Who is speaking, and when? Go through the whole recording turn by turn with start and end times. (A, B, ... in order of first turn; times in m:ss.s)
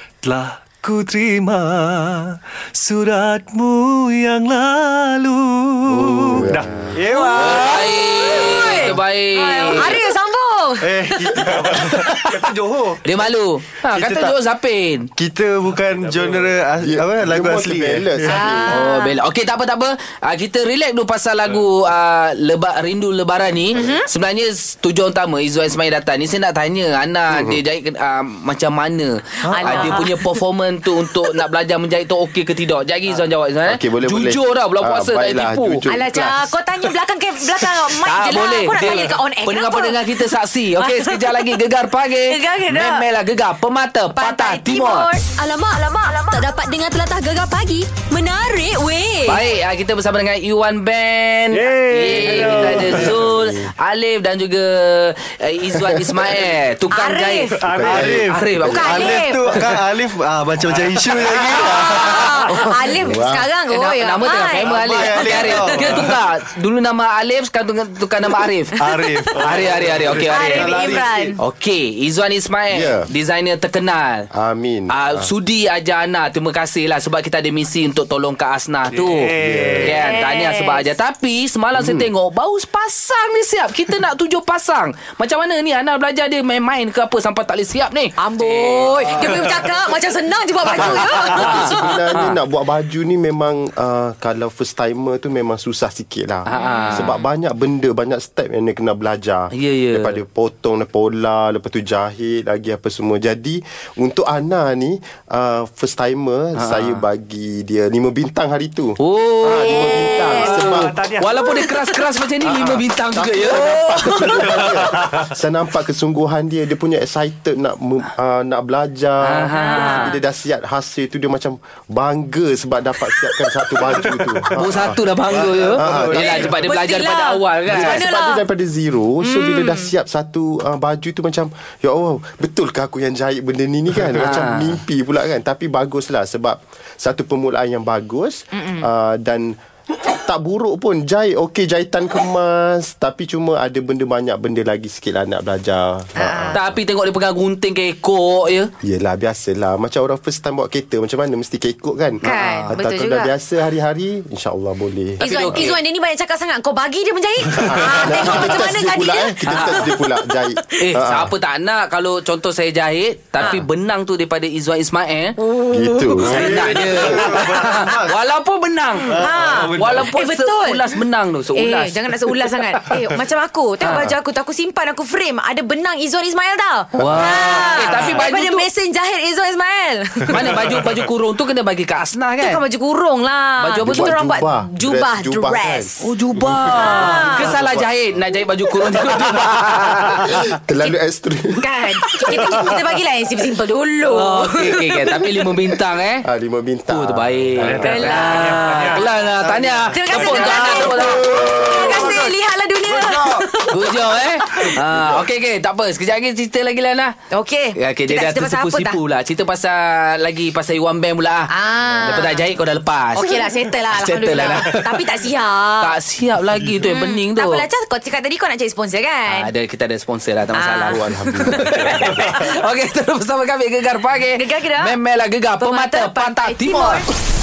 0:00.2-0:06.9 A
0:05.9-0:06.4 B
0:06.3-0:06.9 C
0:06.9-0:07.8 D
0:07.1-0:10.9 E
0:07.4-0:10.0 B
0:10.8-0:13.0 D
0:11.3-0:12.5 A
0:13.0-0:15.1 B
0:13.9-0:14.4 D
0:15.2-0:18.5 D
0:15.9-0:16.5 A
0:16.8-0:18.8 C
0:18.3-0:19.2 E
0:18.7-0:35.8 B
0:23.7-0:24.1 E
0:27.3-0:27.6 C
0:29.5-0:30.2 E
0:29.6-0:30.0 A
0:33.6-0:36.5 C
0:35.9-0:40.2 E
0:38.0-0:45.1 B
0:40.8-0:41.4 E
0:42.3-0:43.0 E
0:44.2-0:45.2 E
0:45.3-0:49.4 F
0:49.2-0:57.5 B
0:51.5-0:53.2 A
0:52.5-0:53.7 C
0:55.8-0:56.3 C
0:56.9-0:57.6 E
0:57.6-0:58.1 A
0:57.6-0:58.5 C
0:57.8-1:02.6 D
0:58.2-0:59.2 B
0:58.6-0:59.4 E
1:01.6-1:05.3 E
1:03.0-1:03.5 C
1:03.7-1:08.8 B
1:04.6-1:06.3 D
1:08.7-1:11.4 D
1:09.3-1:10.9 B
1:09.8-1:10.5 A
1:10.3-1:11.4 E
1:11.4-1:14.3 B
1:12.7-1:13.1 C
1:14.3-1:15.3 C
1:14.9-1:29.4 B
1:18.9-1:20.0 A
1:19.4-1:20.0 C
1:19.9-1:20.9 E
1:21.7-1:22.1 C
1:28.2-1:31.9 E
1:30.7-1:51.0 C
1:31.0-1:32.4 B
1:36.4-1:37.1 B
1:36.5-1:37.1 E
1:39.5-1:40.2 B
1:46.6-1:47.0 B
1:49.0-1:49.9 B
1:49.6-1:50.7 E
1:50.3-1:51.7 A
1:51.2-1:54.4 B
1:52.7-2:06.6 C
1:54.2-1:55.3 A
1:59.2-2:00.1 B
1:59.5-2:00.2 E
2:04.6-2:08.0 B
2:04.8-2:06.6 D
2:06.2-2:08.4 E
2:07.6-2:26.8 C
2:09.2-2:09.9 E
2:14.2-2:14.8 B
2:18.5-2:18.9 E
2:26.2-2:26.6 E
2:26.5-2:28.7 B
2:28.8-2:35.7 C
2:32.2-2:33.3 E
2:32.4-2:32.7 B
2:35.2-2:35.8 B
2:35.2-2:39.7 E
2:37.5-2:41.3 C
2:39.4-2:39.9 B
2:40.8-2:49.2 B
2:45.7-2:47.0 C
2:46.2-2:48.2 D
2:49.0-2:50.1 D
2:49.2-2:50.8 E
2:49.7-2:52.1 B
2:51.5-3:00.8 E
2:53.8-2:54.1 C
2:57.0-2:57.4 C
2:57.0-2:58.6 B
2:57.7-2:58.1 A
3:00.3-3:02.6 B
3:02.4-3:06.0 E
3:03.6-3:04.1 B
3:03.8-3:05.9 C
3:06.0-3:10.3 B
3:06.7-3:07.4 E
3:07.4-3:07.8 C
3:10.1-3:11.6 C
3:11.6-3:14.8 E
3:14.1-3:16.2 B
3:16.2-3:17.7 C
3:16.9-3:22.3 B
3:17.6-3:19.1 A
3:17.8-3:18.8 E
3:19.4-3:21.5 D
3:19.9-3:24.8 E
3:20.2-3:20.9 A
3:21.3-3:21.9 C
3:22.9-3:27.2 B
3:27.3-3:29.0 E
3:27.8-3:31.5 B
3:31.5-3:32.4 E
3:32.0-3:35.0 B
3:33.1-3:35.9 E
3:35.8-3:37.6 B
3:36.8-3:39.5 E
3:39.3-3:47.1 B
3:40.5-3:42.5 E
3:40.9-3:42.2 C
3:44.3-3:44.9 E
3:45.6-3:47.0 E